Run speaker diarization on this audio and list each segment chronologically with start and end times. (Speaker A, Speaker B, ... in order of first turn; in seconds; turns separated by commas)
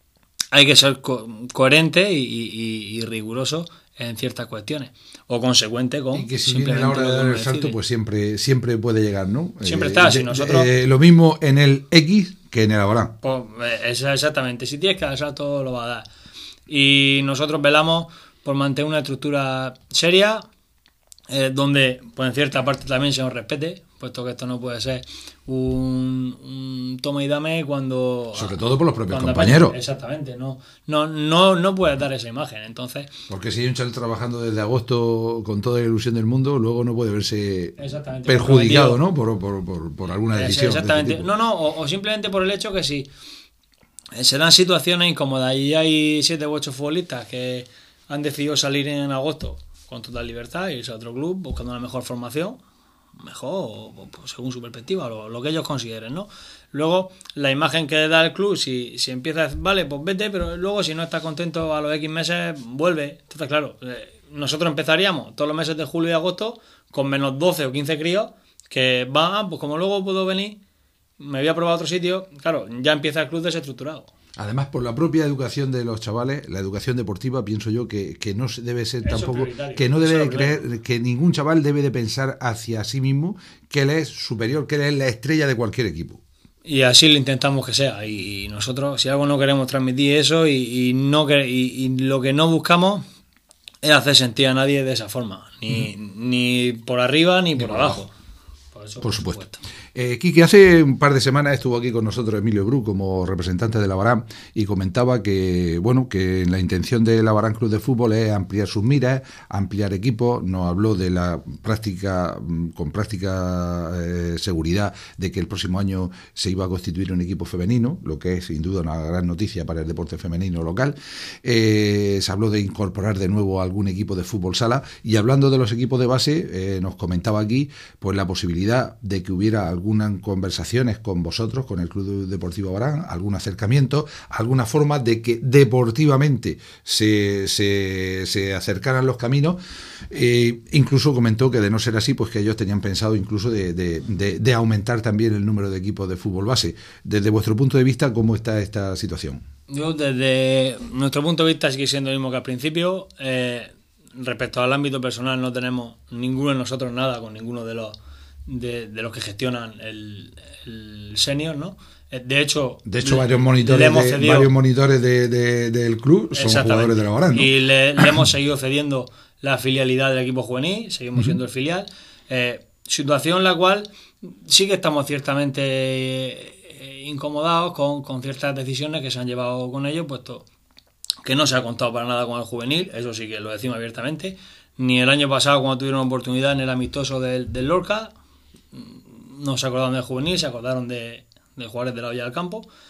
Speaker A: 0.5-7.8, Speaker B: 6.1-13.2, Speaker A: 9.6-10.7, Speaker A: 13.2-16.1, Speaker A: 16.7-20.4, Speaker A: 21.3-28.6, Speaker B: 28.4-29.8, Speaker A: 29.1-33.1, Speaker B: 33.3-41.3, Speaker A: 37.8-39.0, Speaker A: 40.3-43.1, Speaker A: 44.1-52.6, Speaker A: 53.2-70.6, Speaker A: 71.2-74.1, Speaker B: 74.4-86.2, Speaker A: 79.0-80.6, Speaker A: 86.7-93.0, Speaker A: 93.8-98.1, Speaker B: 97.6-98.0, Speaker A: 98.7-99.6, Speaker B: 99.0-139.6, Speaker B: 140.1-149.4, Speaker A: 149.7-157.9, Speaker A: 158.5-164.5, Speaker B: 162.9-168.1, Speaker A: 166.3-180.4, Speaker A: 181.2-188.1, Speaker A: 188.7-192.7